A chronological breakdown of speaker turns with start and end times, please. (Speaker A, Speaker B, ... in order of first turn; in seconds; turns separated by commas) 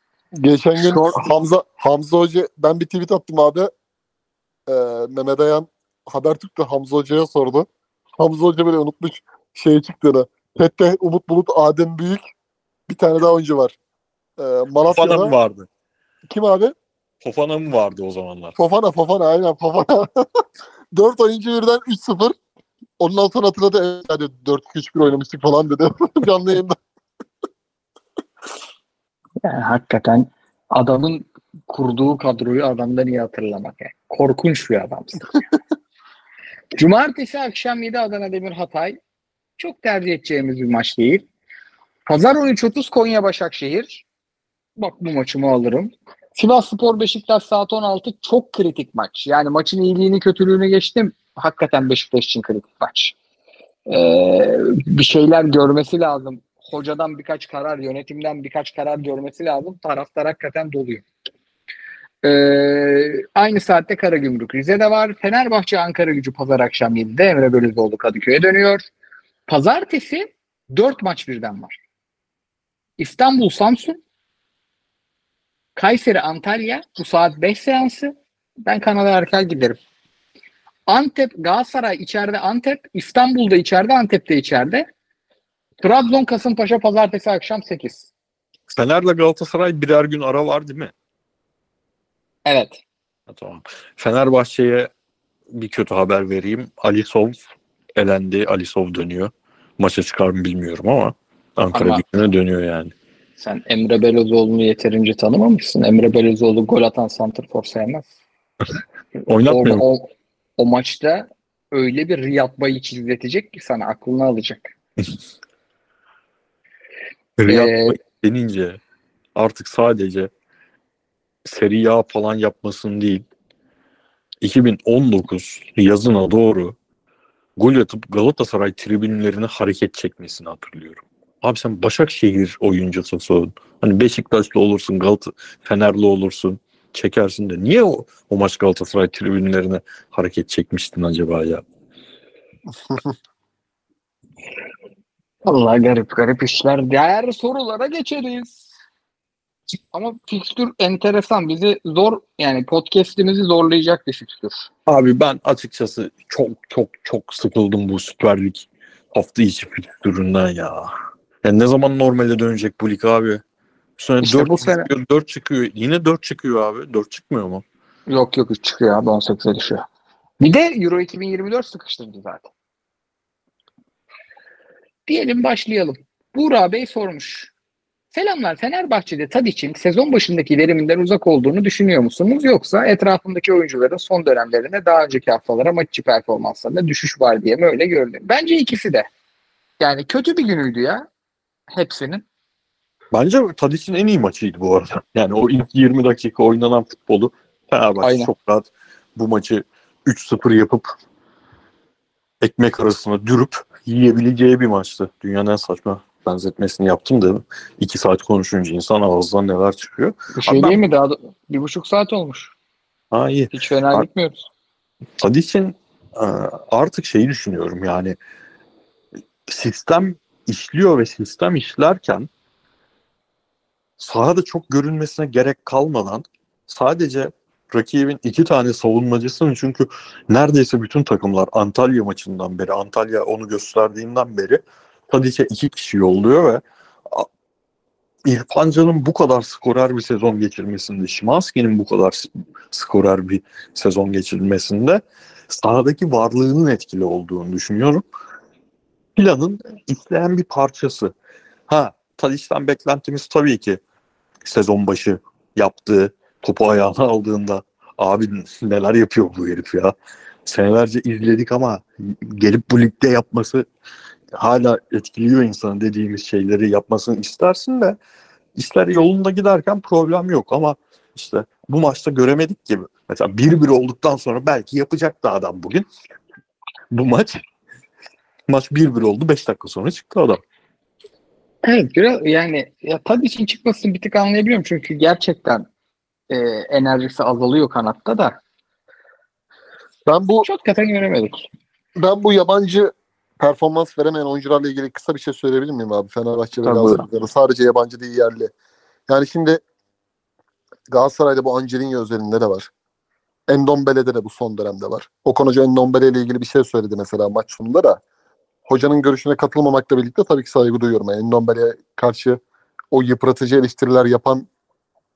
Speaker A: 0.4-3.7, Speaker B: 0.8-1.3, Speaker A: 4.7-12.2, Speaker A: 12.9-13.8, Speaker A: 14.4-15.3, Speaker C: 14.9-15.7, Speaker A: 16.3-16.7, Speaker C: 17.2-18.6, Speaker A: 18.6-20.4, Speaker A: 20.9-22.3, Speaker A: 23.0-26.8, Speaker B: 29.4-35.3, Speaker B: 36.7-39.0, Speaker B: 39.6-41.2, Speaker B: 42.1-44.0, Speaker B: 44.8-53.1, Speaker B: 53.9-61.0, Speaker B: 62.2-68.9, Speaker B: 69.5-71.7, Speaker B: 73.0-74.0, Speaker B: 75.8-78.1, Speaker B: 78.7-79.8, Speaker B: 80.9-84.9, Speaker B: 85.8-88.1, Speaker C: 88.7-90.9, Speaker B: 92.5-92.8, Speaker C: 93.3-94.9, Speaker C: 95.5-97.3, Speaker C: 98.0-102.9, Speaker B: 101.7-102.0, Speaker B: 103.4-108.1, Speaker C: 109.3-109.8, Speaker B: 109.5-114.7, Speaker C: 117.4-118.8, Speaker B: 117.5-117.9, Speaker C: 119.3-120.3, Speaker C: 121.4-123.2, Speaker C: 124.4-126.7, Speaker C: 127.6-141.6, Speaker A: 142.8-143.1, Speaker B: 145.4-148.7, Speaker B: 149.9-154.7, Speaker C: 154.9-163.4, Speaker C: 164.0-167.6, Speaker B: 164.2-164.9, Speaker B: 168.1-169.8, Speaker B: 170.4-172.5, Speaker B: 175.1-177.5, Speaker B: 178.1-189.1, Speaker B: 189.8-191.1, Speaker B: 191.7-192.2, Speaker C: 193.1-200.9, Speaker B: 198.0-198.3, Speaker C: 202.4-210.8, Speaker B: 210.3-212.5, Speaker C: 213.1-214.1, Speaker B: 213.5-214.5, Speaker C: 215.2-218.2, Speaker C: 219.5-222.3, Speaker C: 224.0-237.3, Speaker C: 238.2-248.0, Speaker C: 249.2-251.1, Speaker C: 251.7-253.8, Speaker C: 254.4-259.9, Speaker C: 260.4-263.6, Speaker C: 264.3-268.0, Speaker C: 268.6-275.9, Speaker C: 276.9-277.4, Speaker C: 278.5-280.4, Speaker B: 281.6-285.6, Speaker B: 286.3-288.4, Speaker A: 290.1-290.4, Speaker B: 290.4-291.5, Speaker A: 292.0-298.5, Speaker B: 296.6-297.0, Speaker A: 299.1-299.6, Speaker A: 300.9-302.7, Speaker A: 303.5-308.0, Speaker A: 308.6-312.4, Speaker A: 312.9-314.5